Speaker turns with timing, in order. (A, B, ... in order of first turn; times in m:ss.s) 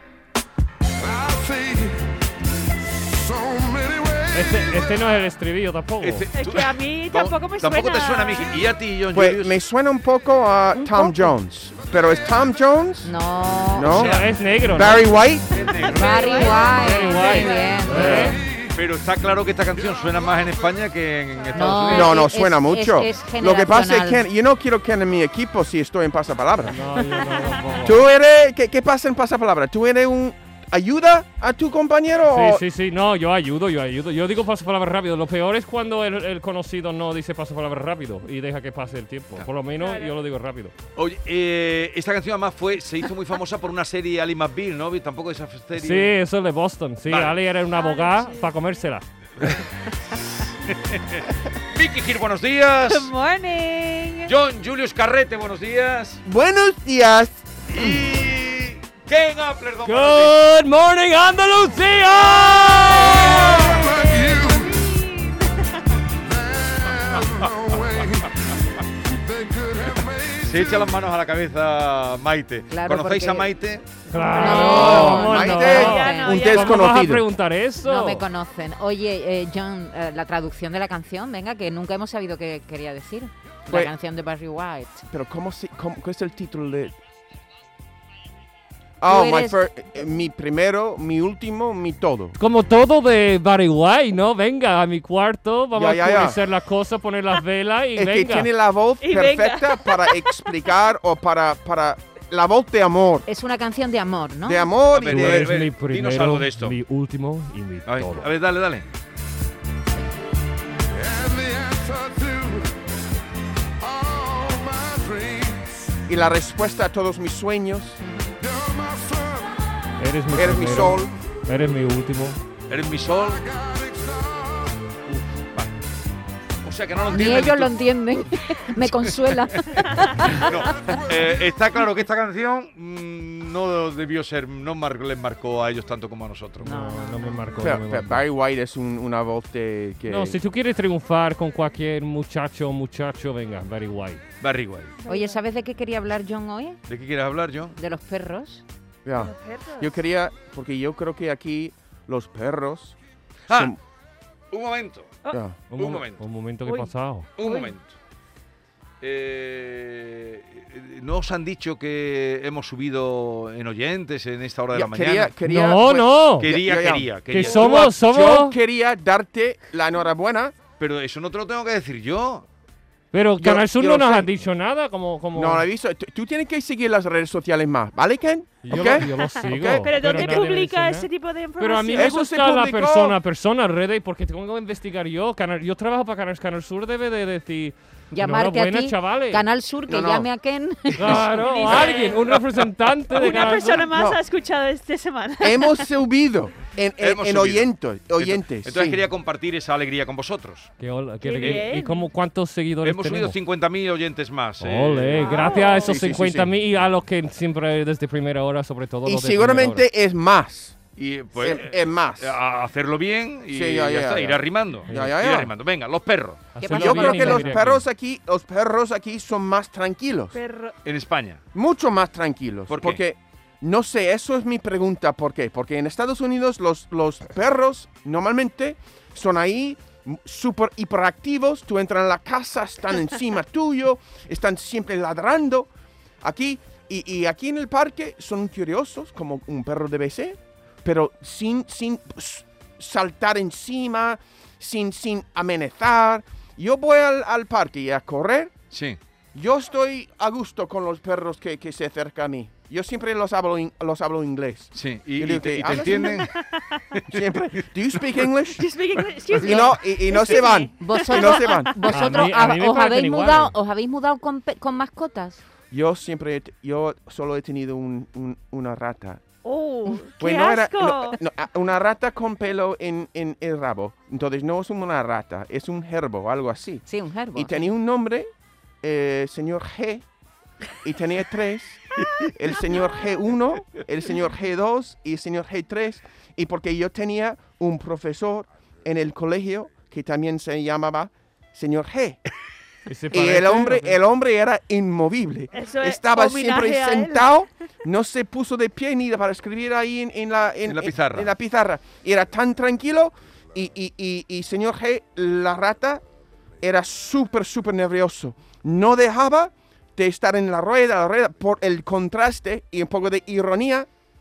0:01.0-0:02.1 A
0:02.8-0:05.2 A
0:04.3-0:06.3 B
0:06.0-0:09.5 C
0:06.3-0:08.6 D
0:09.1-0:13.1 E
0:13.0-0:14.1 F
0:13.7-0:14.2 E
0:13.8-0:14.3 C
0:13.9-0:15.1 B
0:14.7-0:15.6 E
0:15.5-0:16.5 C
0:15.7-0:17.9 D
0:15.8-0:18.4 F
0:16.1-0:18.4 B
0:18.0-0:18.2 E
0:18.1-0:18.8 A
0:18.7-0:22.3 C
0:19.5-0:20.7 A
0:21.5-0:24.2 F
0:21.9-0:26.8 E
0:26.7-0:28.0 B
0:27.0-0:27.7 D
0:27.7-0:32.6 E
0:32.3-0:40.7 B
0:39.8-0:40.2 D
0:41.0-0:46.1 C
0:45.7-0:49.0 B
0:47.1-0:47.4 C
0:47.7-0:48.7 D
0:49.4-0:53.1 C
0:52.9-0:54.3 D
0:54.2-0:56.2 C
0:56.2-0:58.0 E
0:57.7-1:00.4 C
0:59.8-1:03.4 B
1:02.7-1:03.6 C
1:02.9-1:05.8 D
1:03.1-1:04.8 A
1:06.1-1:11.0 A
1:10.4-1:13.9 C
1:12.7-1:13.5 F
1:14.1-1:18.2 B
1:14.2-1:16.9 D
1:14.2-1:16.7 F
1:14.5-1:17.2 E
1:17.8-1:25.0 F
1:25.1-1:26.9 E
1:29.0-1:32.4 E
1:29.0-1:29.6 F
1:32.4-1:38.5 B
1:35.7-1:36.4 E
1:38.0-1:43.3 E
1:39.0-1:40.5 D
1:43.3-1:44.7 F
1:44.4-1:45.5 E
1:44.9-1:46.8 C
1:45.1-1:48.3 B
1:47.8-1:48.8 C
1:50.9-1:52.8 A
1:53.8-1:56.0 A
1:56.1-1:58.0 E
1:58.0-1:58.3 F
1:58.4-1:59.6 A
2:00.0-2:02.4 B
2:00.3-2:01.1 E
2:02.7-2:03.4 C
2:03.0-2:05.0 A
2:05.2-2:05.7 C
2:06.6-2:07.8 C
2:07.1-2:10.6 F
2:08.8-2:16.8 C
2:10.3-2:11.8 A
2:16.6-2:18.2 B
2:16.6-2:17.6 F
2:17.6-2:20.4 E
2:20.1-2:24.2 B
2:24.4-2:24.9 C
2:25.0-2:25.4 D
2:25.1-2:26.8 F
2:26.9-2:27.8 C
2:27.8-2:28.6 F
2:29.0-2:33.0 E
2:29.2-2:29.9 D
2:33.5-2:33.7 C
2:33.5-2:33.8 E
2:34.5-2:35.2 C
2:35.3-2:35.6 E
2:35.7-2:37.3 B
2:35.7-2:36.2 C
2:36.6-2:37.7 D
2:37.4-2:37.9 C
2:39.0-2:45.3 C
2:44.7-2:50.6 E
2:45.4-2:46.5 B
2:46.4-2:47.9 C
2:47.3-2:48.6 B
2:50.8-2:52.4 C
2:53.1-2:55.6 B
2:53.4-2:54.3 E
2:55.3-3:00.4 E
2:58.6-3:01.1 B
2:59.4-3:02.1 D
3:01.6-3:09.4 B
3:01.9-3:03.2 E
3:08.1-3:11.4 F
3:09.9-3:10.3 E
3:10.9-3:13.9 B
3:11.4-3:12.3 D
3:11.7-3:12.4 C
3:13.1-3:15.9 D
3:13.9-3:14.2 E
3:15.4-3:19.0 E
3:17.0-3:20.7 C
3:20.8-3:23.4 B
3:21.2-3:22.1 D
3:21.4-3:21.6 C
3:22.8-3:25.4 C
3:24.6-3:29.8 B
3:25.2-3:26.0 D
3:25.7-3:26.6 E
3:29.0-3:30.8 E
3:31.0-3:36.5 C
3:31.4-3:32.4 E
3:33.5-3:35.5 E
3:34.9-3:35.1 B
3:36.5-3:37.8 B
3:36.6-3:37.5 F
3:36.7-3:40.4 E
3:40.3-3:40.8 D
3:40.8-3:41.4 C
3:41.5-3:55.7 E
3:42.7-3:43.0 C
3:56.2-4:08.6 E
4:08.7-4:09.0 C
4:09.3-4:16.1 E
4:14.7-4:16.3 C
4:15.7-4:16.8 D
4:16.9-4:17.6 C
4:17.1-4:18.7 E
4:18.6-4:22.0 D
4:19.3-4:21.9 E
4:19.4-4:19.7 F
4:20.3-4:25.4 F
4:21.9-4:23.5 B
4:25.7-4:29.2 E
4:29.4-4:31.2 D
4:30.2-4:38.3 E
4:36.9-4:37.7 F
4:38.8-4:40.0 E
4:40.8-4:52.2 E
4:52.9-4:54.0 B
4:53.1-5:06.0 E
4:55.5-4:57.3 D
5:00.6-5:01.3 C
5:06.6-5:13.9 E